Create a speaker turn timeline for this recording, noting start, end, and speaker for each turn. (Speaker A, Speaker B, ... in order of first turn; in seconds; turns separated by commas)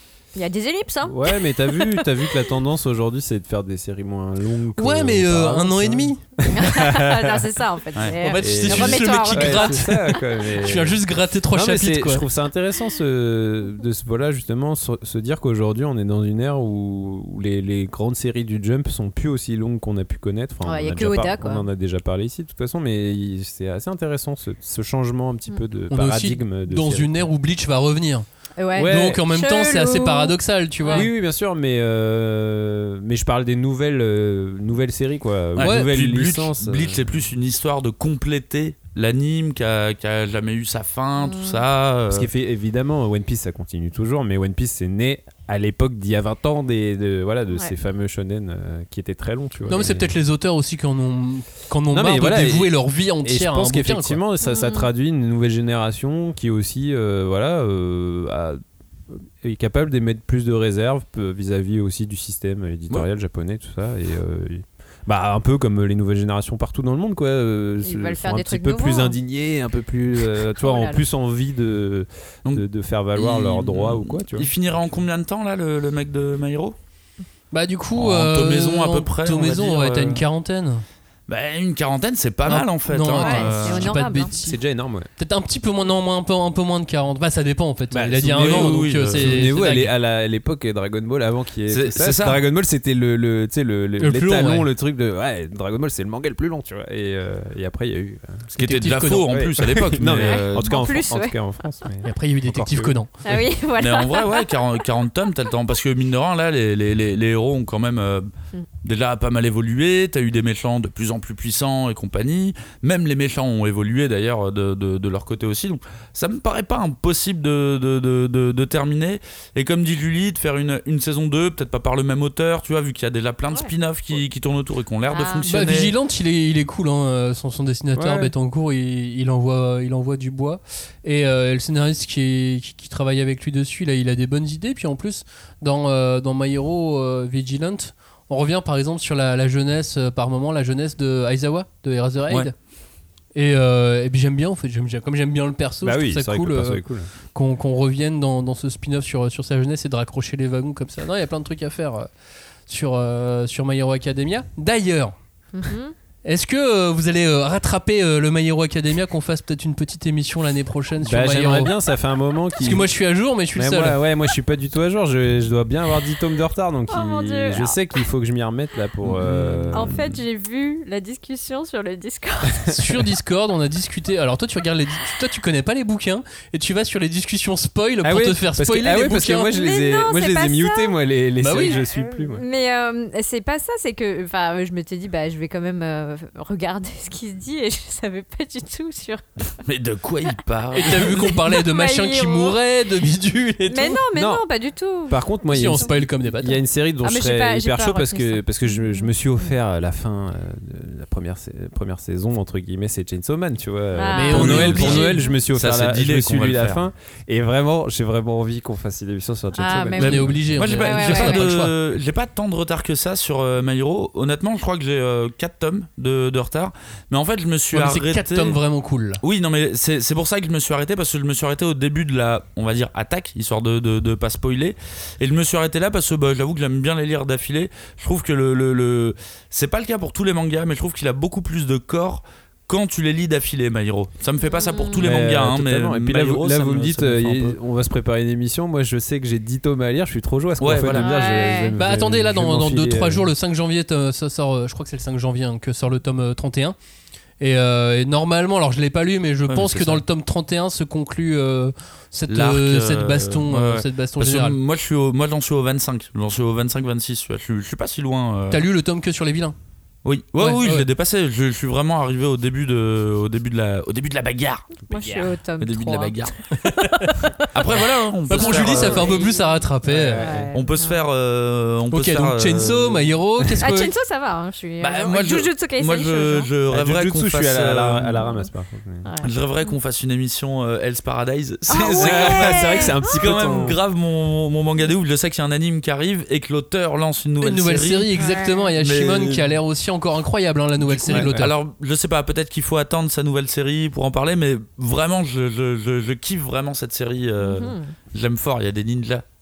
Speaker A: 0.3-2.3, Speaker B: 1.1-7.3, Speaker C: 4.8-6.2, Speaker A: 6.5-9.8, Speaker C: 8.2-12.2, Speaker B: 8.4-27.3, Speaker A: 20.6-21.6, Speaker C: 25.9-28.2, Speaker A: 28.6-31.1, Speaker B: 28.8-29.2, Speaker C: 28.8-31.1, Speaker B: 30.9-37.2, Speaker D: 35.6-42.3, Speaker C: 35.6-35.9, Speaker A: 41.2-41.6, Speaker B: 42.1-50.1, Speaker C: 49.7-54.2, Speaker B: 51.9-74.5, Speaker A: 54.4-54.9, Speaker A: 67.8-69.2, Speaker A: 70.6-71.0, Speaker D: 73.2-76.8, Speaker C: 77.5-80.8, Speaker D: 78.0-80.2, Speaker D: 81.3-83.9, Speaker C: 82.5-84.6, Speaker A: 83.2-84.3, Speaker B: 84.4-85.1, Speaker C: 85.2-89.9, Speaker B: 87.9-98.5, Speaker D: 88.4-89.7, Speaker D: 91.7-92.4, Speaker C: 94.0-94.7, Speaker C: 98.5-99.3, Speaker D: 98.6-100.7, Speaker B: 99.3-103.0, Speaker A: 100.3-101.4, Speaker C: 102.0-103.1, Speaker A: 103.2-104.5, Speaker D: 103.8-108.3, Speaker D: 108.8-125.9, Speaker A: 125.1-125.6, Speaker C: 125.5-142.5, Speaker B: 128.0-128.3, Speaker C: 143.3-146.8, Speaker B: 145.8-147.1, Speaker C: 147.3-152.1, Speaker C: 152.7-155.2, Speaker A: 155.5-155.9, Speaker C: 156.2-161.7, Speaker B: 161.0-162.9, Speaker C: 162.6-164.0, Speaker B: 163.5-170.2, Speaker A: 166.9-167.8, Speaker D: 169.1-169.9, Speaker A: 169.7-172.8, Speaker C: 172.7-179.5, Speaker B: 178.0-182.4, Speaker A: 179.4-181.0, Speaker C: 181.4-181.8, Speaker A: 181.6-189.2, Speaker D: 189.7-191.3, Speaker C: 190.8-194.0, Speaker A: 191.5-192.6, Speaker A: 193.7-195.9, Speaker B: 194.1-194.5, Speaker B: 195.1-210.4, Speaker C: 195.5-196.6, Speaker A: 197.0-199.5, Speaker A: 203.9-205.4, Speaker C: 204.1-205.1, Speaker D: 204.3-206.8, Speaker A: 209.5-211.5, Speaker C: 210.0-211.7, Speaker D: 210.6-218.6, Speaker C: 217.7-219.2, Speaker D: 219.2-237.6, Speaker A: 234.4-235.1, Speaker B: 235.0-243.3, Speaker D: 240.6-241.1, Speaker A: 240.9-241.8, Speaker C: 241.8-246.8, Speaker C: 247.4-254.6, Speaker D: 249.5-250.0, Speaker D: 252.3-258.6, Speaker C: 258.5-259.6, Speaker D: 260.1-264.9, Speaker C: 260.4-260.9, Speaker A: 264.9-266.2, Speaker B: 264.9-265.3, Speaker D: 265.6-266.4, Speaker C: 266.6-267.2, Speaker A: 266.8-267.8, Speaker D: 267.5-269.3, Speaker C: 268.3-270.2, Speaker A: 268.3-271.0, Speaker B: 269.9-270.5, Speaker D: 270.5-273.1, Speaker C: 271.9-273.9, Speaker A: 273.6-276.5, Speaker D: 274.8-278.2, Speaker B: 276.7-279.1, Speaker A: 278.2-278.5, Speaker A: 279.0-279.8, Speaker D: 279.2-288.2, Speaker A: 281.7-283.2, Speaker B: 281.9-283.8, Speaker C: 287.4-291.5, Speaker A: 288.1-288.7, Speaker D: 288.8-289.5, Speaker D: 290.9-299.2, Speaker B: 291.1-291.5, Speaker A: 297.4-297.9